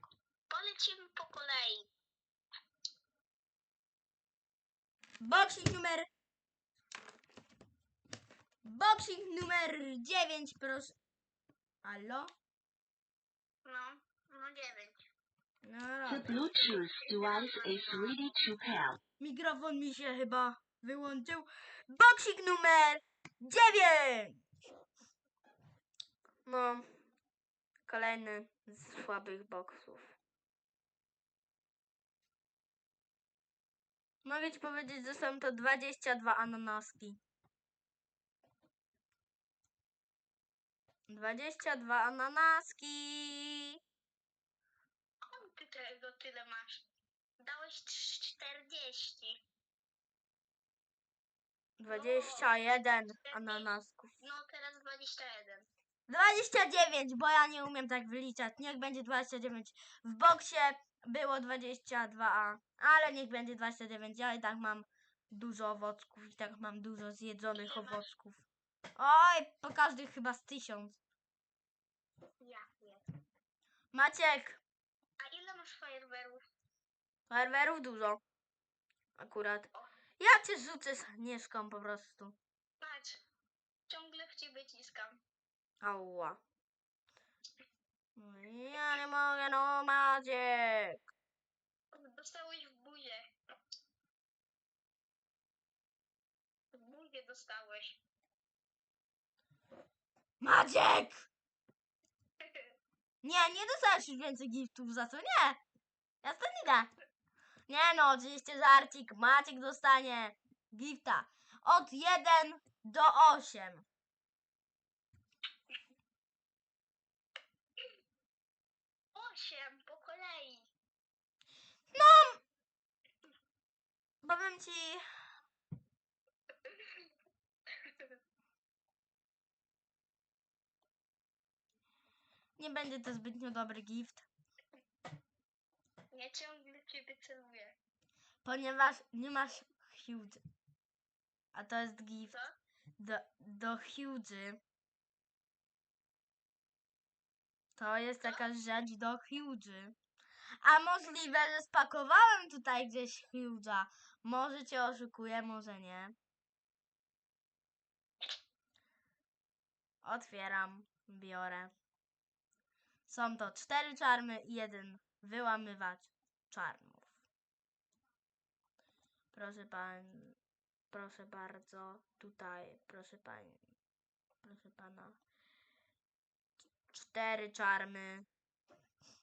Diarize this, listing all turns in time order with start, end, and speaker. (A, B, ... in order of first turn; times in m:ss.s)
0:00.5-0:01.9 A
0:05.2-0:06.1 B
0:08.6-0:11.0 B
0:11.8-0:12.3 B
0:13.6-0:15.0 A
0:15.6-0:16.4 B
0:16.1-0:19.0 C
0:16.6-0:18.3 A
0:19.2-0:24.4 B
0:26.4-0:26.8 B
0:27.9-0:30.2 B
0:34.2-0:37.2 B
0:41.1-0:43.8 B
0:45.2-0:46.8 A
0:47.4-0:49.4 A
0:51.8-0:54.2 B
0:51.9-0:55.7 A
0:56.1-1:08.4 B
1:07.6-1:08.1 A
1:09.0-1:11.0 B
1:12.4-1:13.0 A
1:13.9-1:14.6 B
1:15.2-1:16.4 A
1:17.3-1:18.2 B
1:19.2-1:22.4 B
1:22.8-1:23.2 A
1:23.9-1:25.2 A
1:25.8-1:26.4 B
1:28.2-1:31.1 B
1:31.9-1:33.2 A
1:36.7-1:38.0 A
1:40.4-1:41.3 B
1:42.4-1:42.7 A
1:43.2-1:45.6 B
1:46.2-1:46.9 B
1:47.7-1:53.9 B
1:59.1-2:00.6 A
2:01.9-2:02.4 B
2:04.2-2:05.0 B
2:07.8-2:08.1 A
2:12.6-2:14.2 B
2:16.1-2:17.8 A
2:18.4-2:20.4 B
2:21.5-2:22.4 B
2:22.3-2:22.5 A
2:23.0-2:24.6 B
2:27.8-2:30.0 B
2:30.6-2:36.2 B
2:40.0-2:41.7 B
2:43.1-2:47.1 B
2:49.3-2:50.4 B
2:50.9-2:53.6 B
2:54.4-2:55.2 B
2:56.7-2:58.3 B